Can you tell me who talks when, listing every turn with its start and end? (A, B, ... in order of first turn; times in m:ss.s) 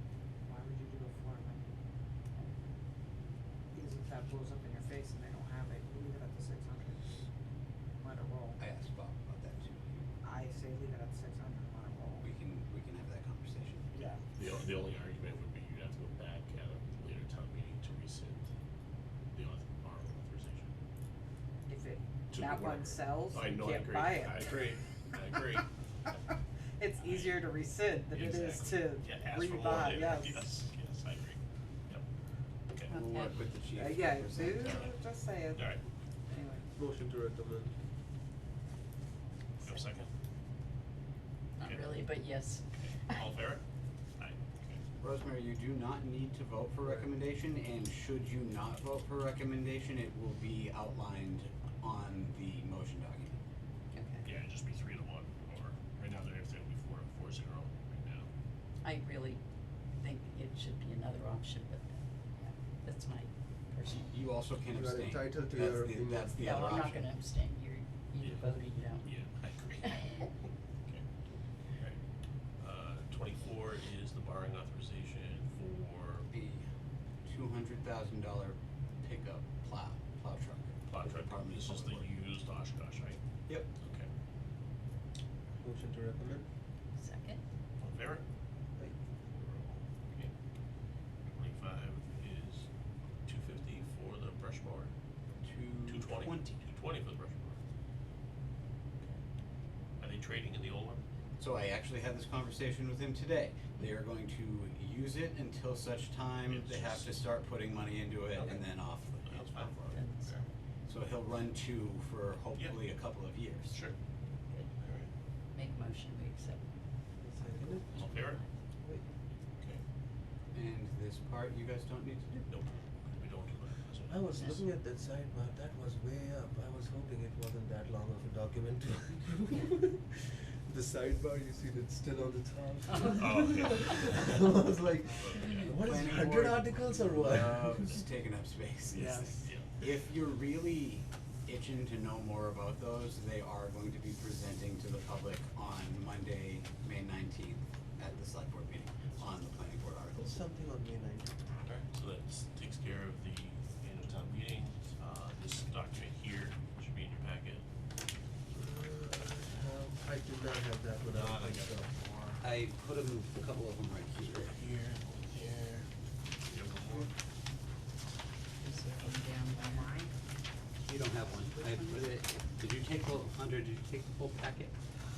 0:00.4-0:01.6 A
0:02.4-0:02.7 A
0:03.7-0:07.2 A
0:08.0-0:08.6 A
0:08.6-0:10.1 B
0:10.2-0:12.3 A
0:12.2-0:13.9 B
0:13.9-0:14.2 A
0:14.4-0:18.5 C
0:19.3-0:20.7 C
0:21.7-0:24.7 A
0:22.3-0:25.7 C
0:26.8-0:30.5 A
0:27.0-0:27.4 C
0:28.1-0:32.0 C
0:32.9-0:33.4 D
0:32.9-0:34.8 B
0:33.8-0:35.8 A
0:34.6-0:34.9 C
0:35.5-0:35.8 C
0:36.3-0:36.7 A
0:36.8-0:37.7 E
0:39.6-0:40.1 C
0:41.6-0:43.2 D
0:41.6-0:42.0 C
0:42.8-0:43.6 C
0:44.2-0:44.8 C
0:45.0-0:53.4 B
0:46.8-0:47.1 E
0:53.9-0:54.2 D
0:54.2-0:58.3 C
0:58.8-0:59.4 D
1:00.0-1:04.1 D
1:04.0-1:07.1 B
1:04.7-1:06.8 E
1:06.4-1:09.1 D
1:08.2-1:10.3 C
1:12.6-1:16.3 C
1:16.3-1:16.6 B
1:17.2-1:22.1 B
1:20.9-1:23.2 C
1:23.8-1:24.1 C
1:25.6-1:26.4 E
1:27.0-1:27.4 D
1:27.8-1:28.2 C
1:29.4-1:30.3 C
1:31.3-1:32.7 C
1:33.2-1:34.9 C
1:35.4-1:36.6 B
1:35.9-1:37.6 C
1:40.0-1:41.0 C
1:41.4-1:49.7 B
1:46.5-1:47.3 C
1:48.3-1:50.5 C
1:49.7-1:50.4 D
1:50.9-1:53.7 B
1:53.7-1:54.0 C
1:54.8-1:55.1 C
1:55.5-1:56.6 D
1:57.2-1:57.9 E
1:57.9-1:58.5 D
1:57.9-1:58.4 C
2:00.5-2:02.5 B
2:02.5-2:04.3 C
2:04.1-2:18.0 E
2:04.3-2:04.6 D
2:13.0-2:14.4 C
2:15.0-2:15.8 C
2:15.5-2:30.4 B
2:19.2-2:19.8 C
2:30.2-2:31.3 E
2:31.6-2:37.6 C
2:38.6-2:41.9 E
2:41.1-2:42.4 C
2:42.4-2:44.6 B
2:44.4-2:45.9 C
2:46.4-2:47.1 C
2:48.6-2:49.9 D
2:49.5-2:50.1 A
2:50.9-2:54.7 B